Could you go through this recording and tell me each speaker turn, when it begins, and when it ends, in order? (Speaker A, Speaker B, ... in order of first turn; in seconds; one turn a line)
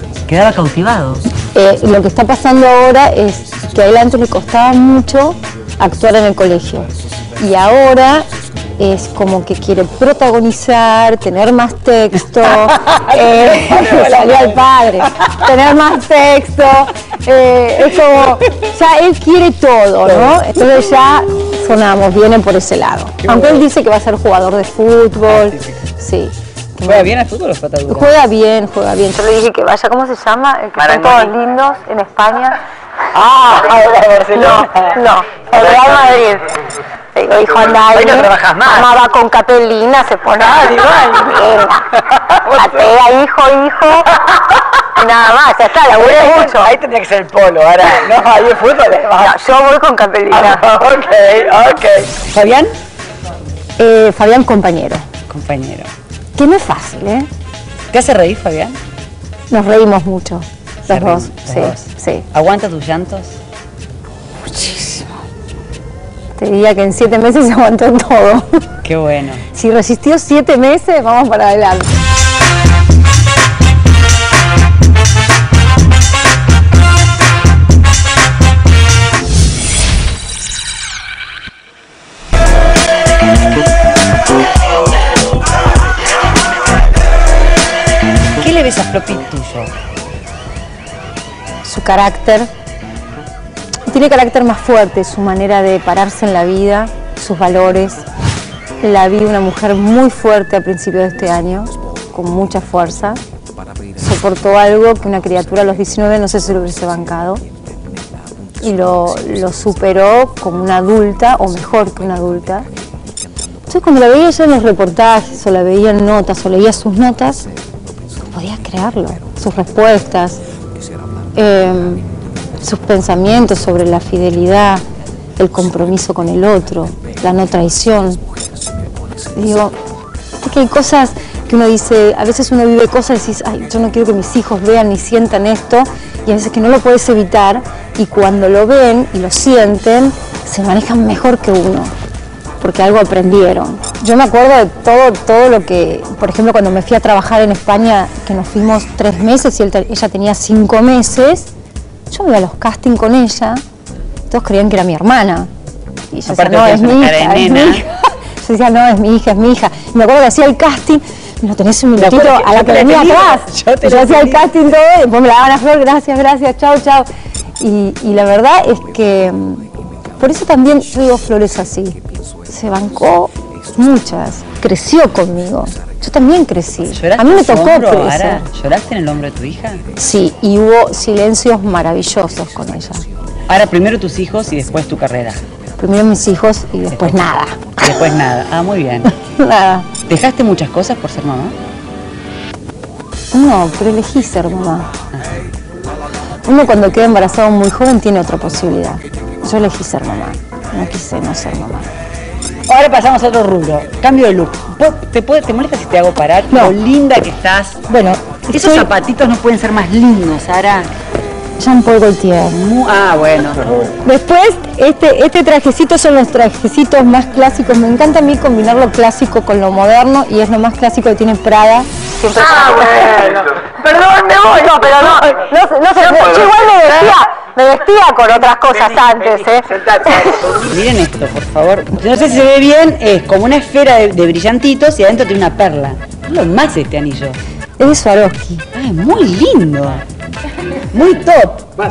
Speaker A: 0.3-1.3
Speaker B: 1.5-27.2
Speaker A: 12.3-15.6
Speaker A: 20.1-20.5
Speaker A: 23.2-23.7
Speaker A: 25.2-25.7
Speaker A: 26.9-28.2
Speaker B: 27.9-32.6
Speaker A: 30.8-31.3
Speaker A: 33.1-35.0
Speaker B: 34.4-36.6
Speaker A: 35.5-36.2
Speaker B: 37.1-41.9
Speaker A: 37.5-38.9
Speaker A: 40.4-43.0
Speaker B: 42.4-44.2
Speaker A: 44.2-44.6
Speaker B: 44.9-46.7
Speaker A: 45.9-49.4
Speaker B: 49.2-50.6
Speaker A: 50.3-52.7
Speaker B: 53.8-55.1
Speaker A: 55.3-55.9
Speaker B: 56.4-57.3
Speaker A: 57.9-58.8
Speaker B: 59.5-62.2
Speaker A: 60.9-63.4
Speaker B: 64.4-65.1
Speaker B: 66.4-68.7
Speaker A: 68.8-69.4
Speaker B: 69.5-72.0
Speaker A: 88.4-89.7
Speaker B: 91.6-92.5
Speaker B: 93.9-98.1
Speaker B: 98.8-103.2
Speaker B: 104.0-107.4
Speaker B: 108.6-112.7
Speaker B: 113.7-117.5
Speaker B: 118.3-120.4
Speaker B: 121.4-122.1
Speaker B: 122.6-124.8
Speaker B: 125.4-128.2
Speaker B: 129.3-129.8
Speaker B: 130.4-141.9
Speaker B: 142.6-151.5
Speaker B: 152.1-153.6
Speaker B: 154.3-155.5
Speaker B: 156.1-167.1
Speaker A: 156.3-157.8
Speaker A: 162.0-164.6
Speaker B: 167.6-178.5
Speaker A: 176.9-179.8
Speaker B: 180.0-183.1
Speaker A: 183.5-185.4
Speaker B: 185.8-187.9
Speaker A: 186.9-187.2
Speaker A: 187.8-189.1
Speaker B: 189.1-189.9
Speaker A: 190.1-191.6
Speaker B: 193.3-194.9
Speaker B: 196.4-201.9
Speaker A: 202.7-207.8
Speaker B: 207.9-208.9
Speaker A: 208.5-210.9
Speaker B: 211.6-212.6
Speaker A: 212.5-213.9
Speaker B: 213.9-223.5
Speaker A: 222.7-225.3
Speaker B: 224.7-230.6
Speaker A: 226.0-226.9
Speaker A: 229.0-237.4
Speaker B: 237.8-238.7
Speaker A: 238.7-240.0
Speaker A: 240.9-241.7